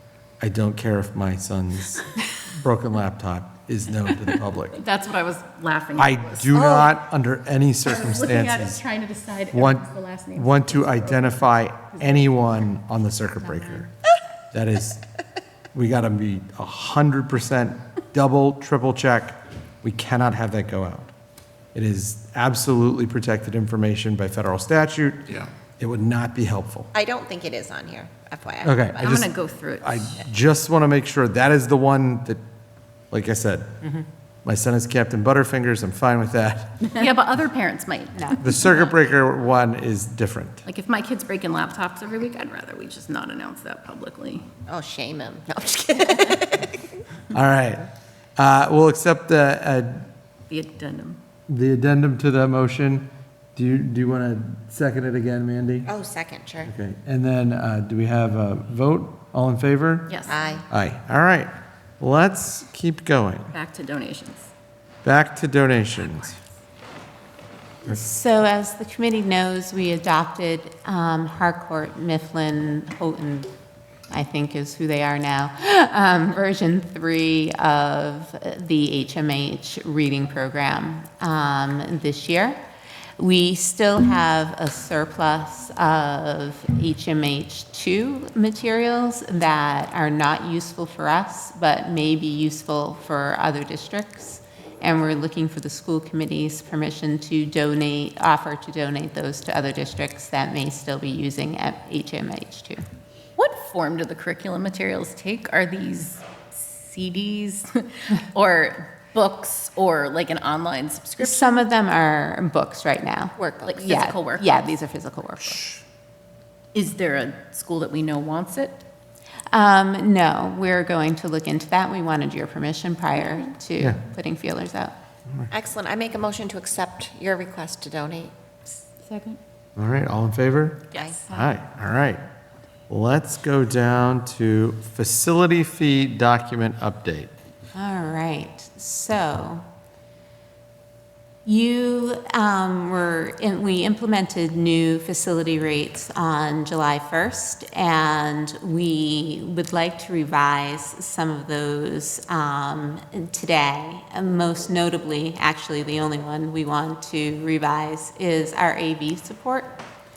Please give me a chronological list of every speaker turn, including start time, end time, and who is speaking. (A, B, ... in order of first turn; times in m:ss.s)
0:00.4-0:04.8 A
0:04.8-0:06.6 B
0:06.0-0:08.8 A
0:06.6-0:06.9 C
0:07.8-0:11.5 B
0:09.5-0:13.9 A
0:13.5-0:13.8 B
0:14.5-0:15.0 A
0:15.7-0:21.1 A
0:21.7-0:25.2 A
0:25.8-0:26.9 A
0:26.9-0:29.0 C
0:28.6-0:29.3 A
0:29.0-0:30.2 B
0:29.8-0:32.4 A
0:33.1-0:33.8 A
0:34.4-0:36.8 A
0:36.9-0:38.9 B
0:38.4-0:40.6 A
0:40.6-0:44.4 B
0:44.7-0:47.0 C
0:47.3-0:50.1 A
0:50.5-0:51.2 B
0:51.5-0:55.9 A
0:55.9-0:56.7 C
0:56.6-1:00.1 A
1:00.1-1:00.4 B
1:00.3-1:00.6 C
1:00.7-1:03.5 A
1:03.5-1:04.5 B
1:05.0-1:06.3 A
1:07.8-1:13.5 D
1:14.1-1:22.6 D
1:23.2-1:42.8 D
1:43.4-1:51.7 B
1:51.2-1:55.8 D
1:53.4-1:53.8 C
1:53.6-1:54.6 B
1:56.7-1:58.8 B
1:59.5-2:04.9 D
2:05.5-2:08.3 C
2:09.0-2:09.4 B
2:09.8-2:12.2 A
2:10.9-2:11.5 B
2:12.9-2:17.3 A
2:17.7-2:19.6 D
2:21.4-2:39.8 D